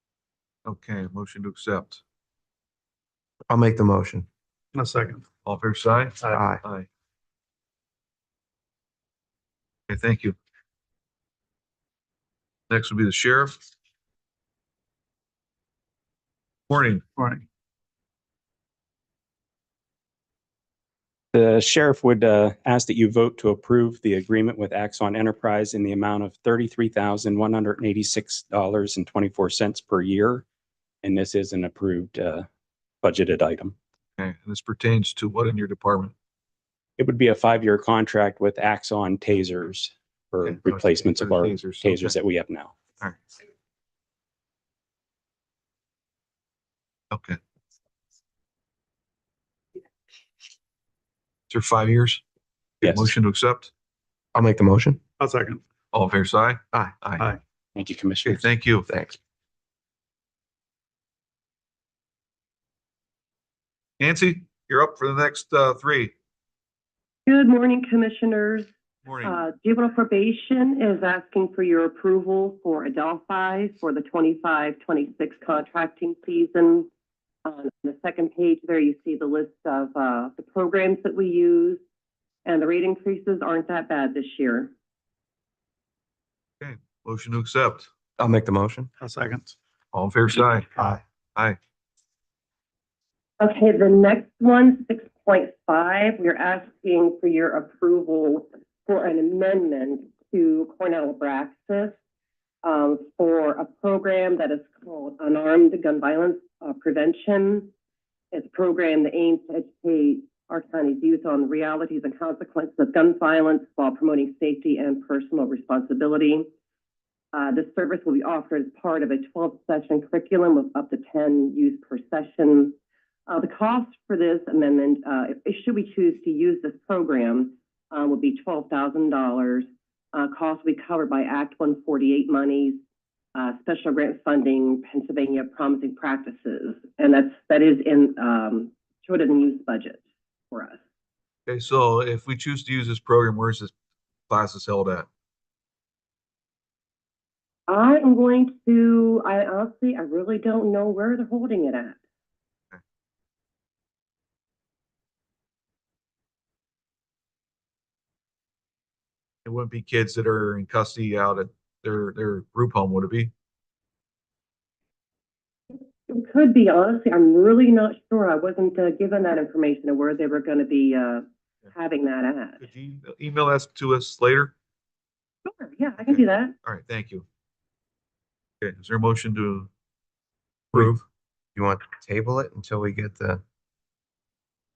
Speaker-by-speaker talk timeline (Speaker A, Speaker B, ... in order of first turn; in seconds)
Speaker A: 0.6-2.0, 5.4-6.9, 9.9-10.3, 12.7-13.5, 16.7-17.1, 34.2-36.1, 40.4-42.2, 47.1-47.4, 51.5-52.2, 52.8-53.7, 55.9-57.2, 58.2-58.9, 64.0-66.1, 69.0-69.4, 86.6-87.9, 89.9-90.7, 141.5-143.7, 144.3-145.1, 159.4-163.3, 172.6-174.5, 176.0-177.2, 178.6-179.7, 180.7-181.0
Speaker B: 3.5-4.3, 6.3-6.6, 54.3-55.0, 56.7-57.0, 58.9-59.2, 88.2-88.9, 181.6-183.4
Speaker C: 4.7-5.2, 17.1-17.4, 55.2-55.6, 89.0-89.5
Speaker D: 21.3-30.4, 31.0-32.5, 33.0-33.8, 37.0-42.8, 52.8-53.1, 57.7-58.5
Speaker E: 67.3-68.7, 69.2-76.9, 77.4-81.8, 82.4-84.7, 93.4-101.9, 102.6-107.7, 108.3-116.5, 117.3-122.8, 123.3-132.8, 133.3-140.8, 147.7-152.0, 166.1-172.6, 175.4-176.5